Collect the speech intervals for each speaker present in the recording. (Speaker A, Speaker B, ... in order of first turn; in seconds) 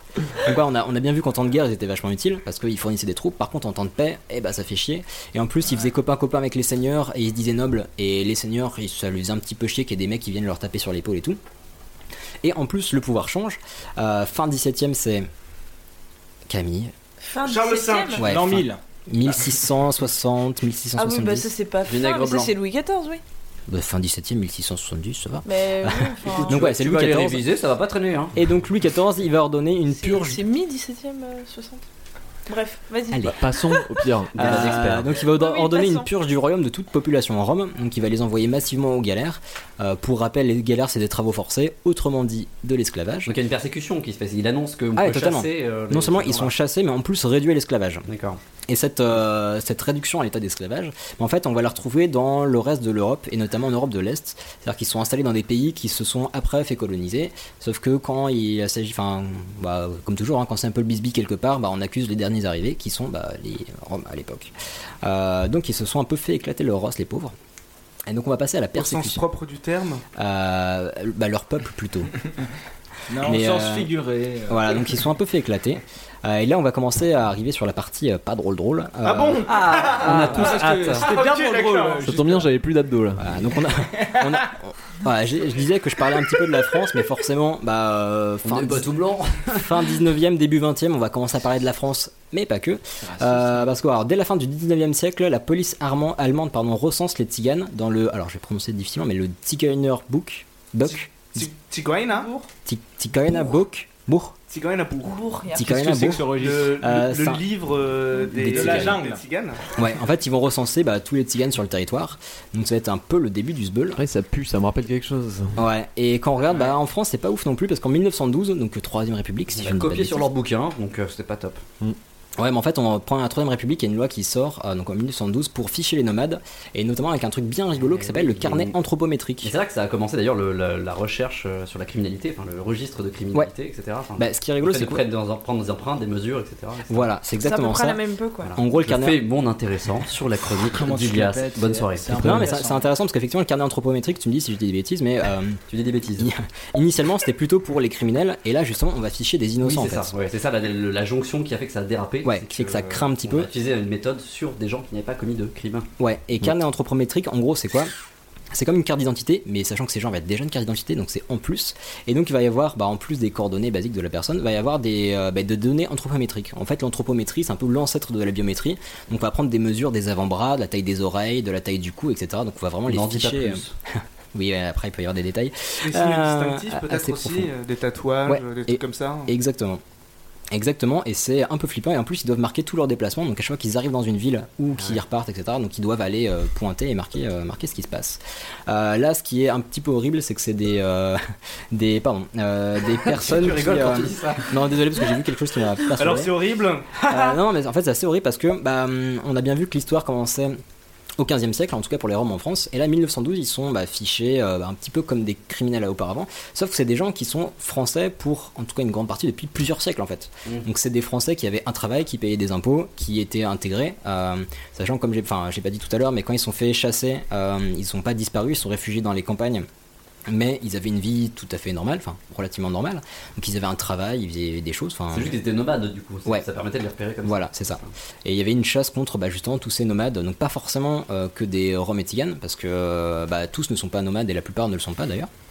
Speaker A: 0.4-11.4, 12.4-15.3, 16.5-16.9, 18.2-21.5, 23.7-27.4, 28.3-30.4, 33.1-33.4, 34.3-43.3, 45.0-48.0, 48.7-64.5, 65.0-67.3, 68.1-69.2, 70.1-72.1, 73.2-73.9, 74.5-80.2, 83.2-89.0, 89.5-101.5, 102.7-104.3, 105.5-107.4, 108.2-109.0, 109.7-114.0, 115.5-120.3, 122.4-129.5, 134.2-135.0, 136.9-138.0, 138.6-139.2, 142.2-145.6, 146.2-150.1, 152.2-153.5, 156.0-157.9, 158.5-177.5, 178.2-179.8, 180.5-191.2, 191.7-196.3, 196.9-200.6, 201.2-219.7, 220.3-225.3, 227.2-235.3
Speaker B: 17.2-18.2, 21.0-23.2, 25.4-26.6, 29.9-31.8, 32.5-33.7, 35.1-36.1, 102.1-102.5, 105.0-105.8, 137.4-138.5
Speaker C: 17.4-18.2, 68.8-70.0, 79.0-82.1, 100.8-102.3, 104.5-105.2, 106.3-109.6, 175.8-179.3, 196.0-197.3
Speaker D: 18.2-18.8, 73.1-74.8, 80.0-82.5, 93.0-93.7, 105.6-106.8, 108.4-109.2, 140.7-142.9
Speaker E: 21.8-22.5, 26.4-28.4, 34.3-35.1, 43.3-46.5, 48.1-48.4, 79.4-81.1, 88.4-90.0, 119.5-121.6, 127.8-128.7, 129.4-137.1, 138.4-142.6, 145.7-146.3, 149.6-155.9, 172.9-173.7, 184.8-185.0, 193.0-194.8, 225.1-227.9
Speaker F: 33.2-35.0, 82.0-83.2, 114.0-115.6